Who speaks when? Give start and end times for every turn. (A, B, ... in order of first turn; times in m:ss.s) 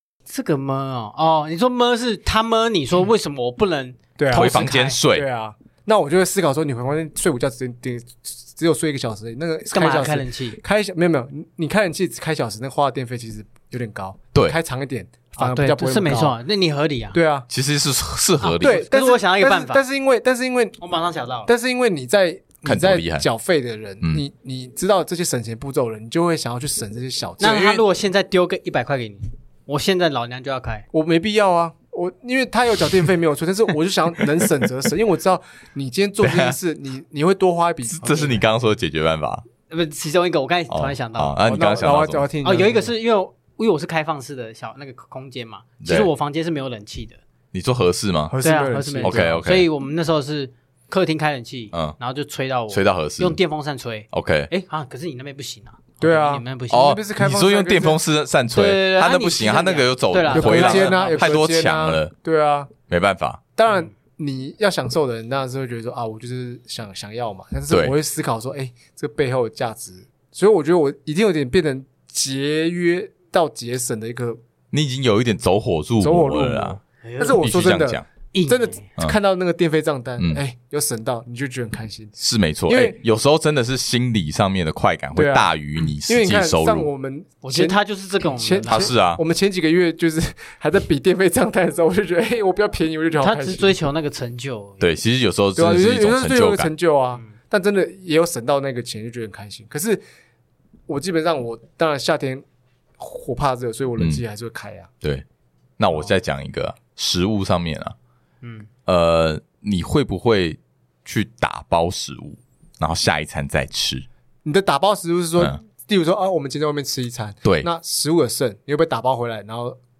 0:00.3-0:05.0 A
0:04.2-0:16.4 B
0:04.3-0:05.3 C
0:09.7-0:10.6 A
0:15.4-0:17.2 A
0:17.1-0:17.5 B
0:17.5-0:18.8 C
0:18.4-0:19.8 A
0:18.6-0:20.8 B
0:20.8-0:21.5 A
0:21.5-0:27.8 B
0:22.6-0:23.3 C
0:27.4-0:30.9 A
0:30.9-0:38.4 B
0:36.2-0:36.6 C
0:37.9-0:39.4 C
0:39.7-0:41.4 A
0:40.7-0:42.3 C
0:41.4-0:42.9 B
0:42.4-0:47.2 A
0:45.8-0:46.1 C
0:47.5-0:48.4 C
0:48.3-0:49.4 B
0:48.4-0:57.0 A
0:49.0-0:49.7 C
0:52.7-0:53.4 C
0:54.1-0:54.5 C
0:56.0-0:58.0 B
0:56.7-1:02.1 C
0:58.5-1:01.4 A
1:00.3-1:02.7 B
1:02.9-1:03.4 C
1:03.6-1:14.4 B
1:14.7-1:16.8 C
1:16.0-1:22.2 B
1:17.0-1:17.4 A
1:17.4-1:18.0 C
1:18.3-1:18.9 A
1:22.2-1:26.9 C
1:22.7-1:23.0 B
1:25.2-1:25.5 B
1:26.0-1:33.7 B
1:27.4-1:28.9 A
1:28.7-1:29.2 C
1:33.2-1:34.9 A
1:34.8-1:36.7 C
1:35.6-1:40.0 B
1:40.9-1:42.4 B
1:43.0-1:44.9 B
1:45.8-1:48.0 C
1:48.4-1:48.7 A
1:48.9-1:54.1 C
1:54.4-1:59.8 B